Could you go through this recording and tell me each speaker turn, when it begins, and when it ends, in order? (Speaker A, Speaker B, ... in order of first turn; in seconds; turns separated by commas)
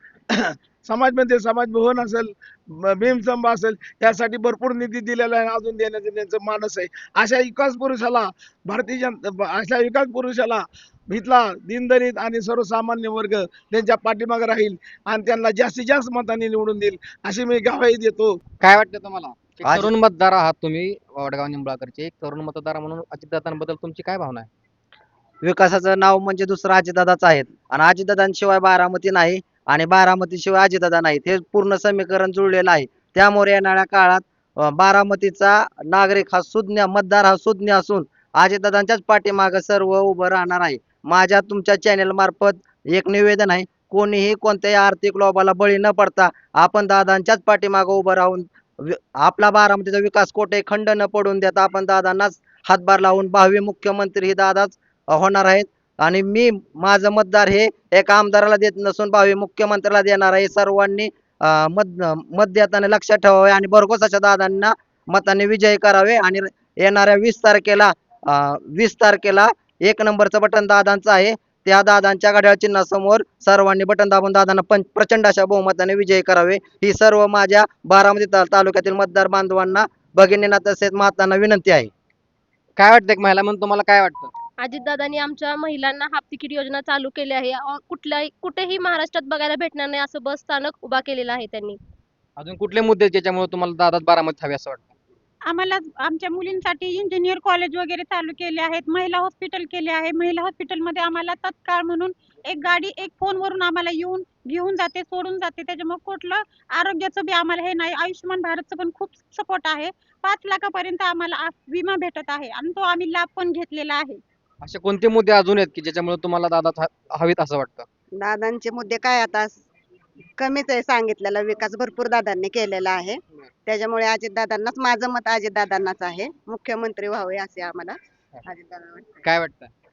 Speaker A: 0.3-18.4, Speaker B: 18.6-24.5, Speaker C: 19.6-19.9, Speaker C: 25.4-81.9, Speaker B: 82.8-84.3, Speaker D: 84.6-91.8, Speaker B: 92.4-94.9, Speaker E: 95.5-114.2, Speaker B: 114.6-117.9, Speaker F: 118.2-119.6, Speaker F: 120.4-127.9, Speaker F: 128.5-129.1, Speaker B: 129.2-129.7